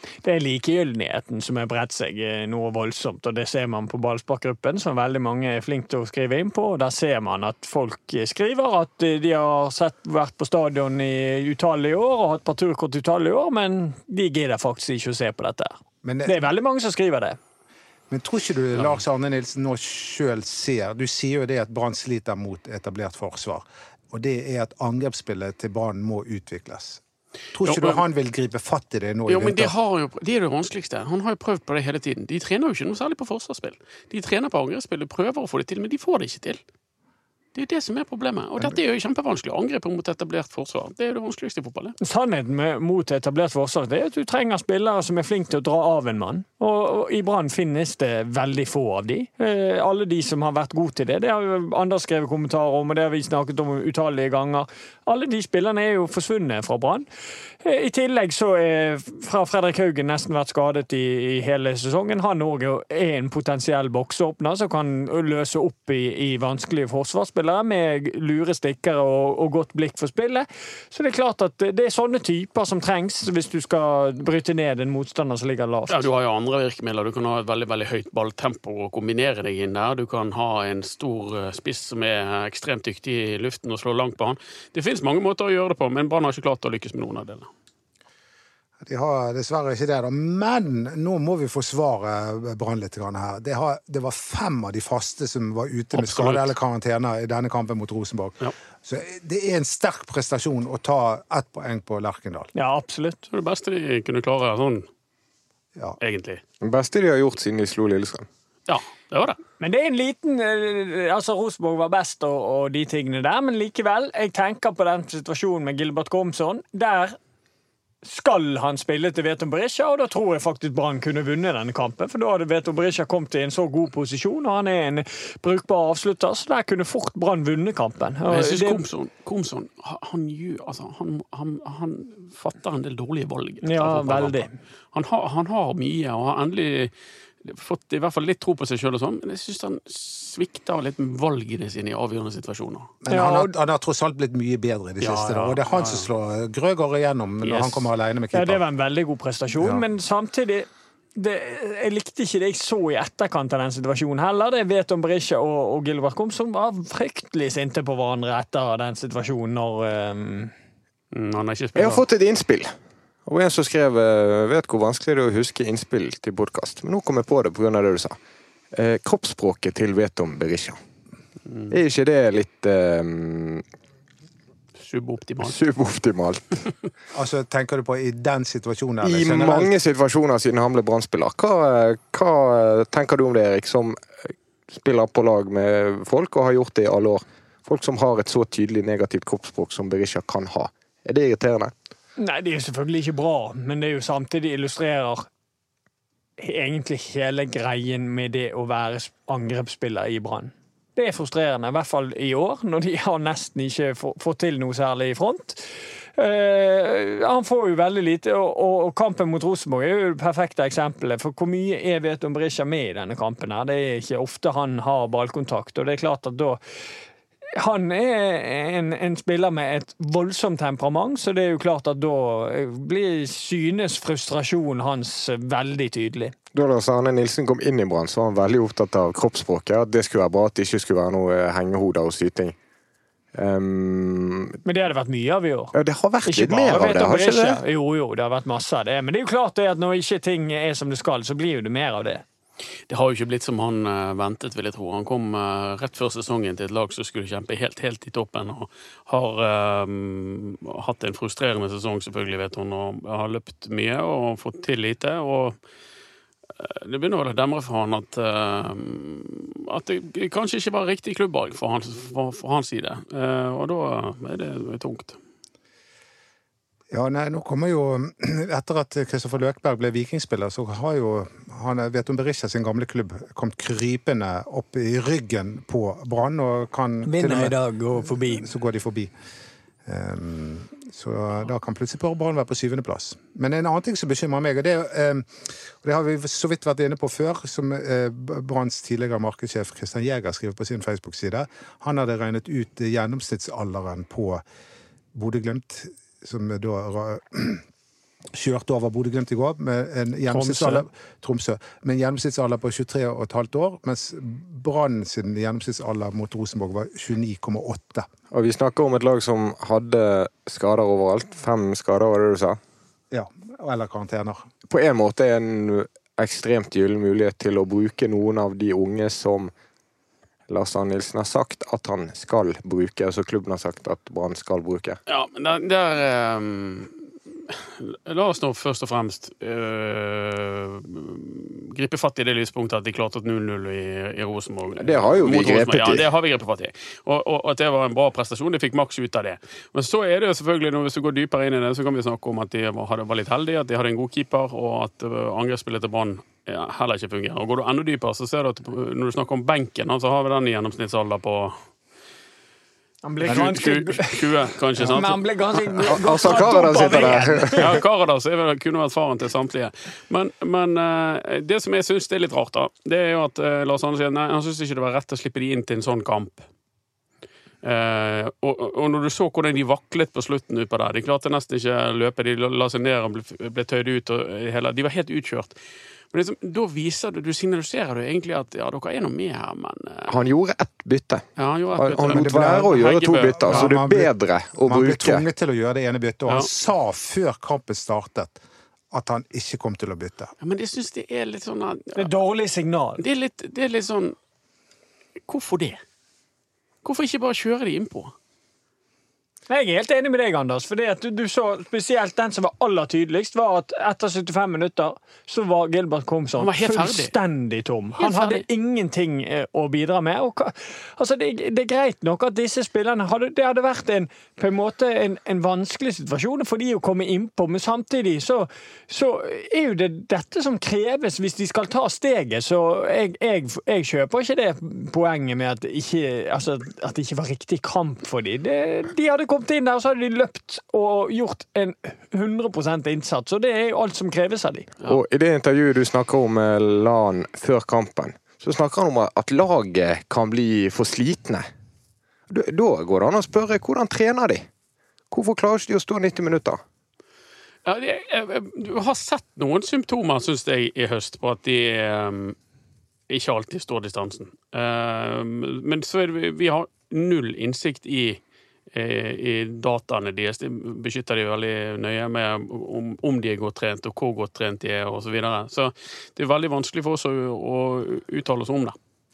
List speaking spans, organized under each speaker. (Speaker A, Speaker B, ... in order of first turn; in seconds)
Speaker A: 0.2-17.4, 42.0-57.1, 57.6-76.0, 102.5-103.2, 109.6-117.2, 118.0-128.8, 133.6-134.5, 143.1-143.5, 148.3-160.5, 192.2-195.3, 196.4-216.6, 217.6-226.3, 234.6-242.2, 277.0-278.5, 300.3-300.9, 353.0-354.3, 354.8-357.8, 391.9-393.0, 399.5-434.7
Speaker B: 16.0-16.4, 18.1-27.0, 27.5-29.7, 88.8-102.5, 143.0-148.6, 177.1-179.7, 266.9-279.1, 279.8-294.4, 295.1-297.6, 298.3-308.1, 313.1-314.5, 353.2-353.6, 382.1-382.7, 383.3-388.4, 388.9-390.3
Speaker C: 27.6-28.0, 29.3-36.6, 37.5-42.0, 75.9-87.5, 95.9-96.5, 103.3-104.9, 106.0-106.4, 108.7-109.4, 128.3-136.9, 137.4-142.9, 145.0-146.1, 147.4-147.8, 161.1-162.0, 171.5-171.8, 174.8-175.6, 242.9-255.6, 256.6-265.2, 325.1-326.9, 327.5-351.6, 353.2-355.2, 356.1-366.5, 367.6-375.5, 376.1-380.1, 381.4-383.6, 390.4-392.0, 393.0-394.1, 395.3-395.8, 396.8-398.1, 406.4-407.1, 408.0-408.4, 447.6-452.4, 453.1-458.2, 458.7-468.7
Speaker D: 106.6-108.3, 161.7-162.7, 163.2-168.2, 168.7-170.8, 171.7-173.6, 175.4-176.7, 179.0-191.7, 226.5-232.5, 233.3-234.6, 235.7-237.6, 308.3-312.6, 314.7-319.5, 320.5-325.0, 334.8-336.1, 355.9-357.8, 380.1-381.2, 381.8-385.2, 434.9-441.4, 442.3-444.5, 445.1-446.6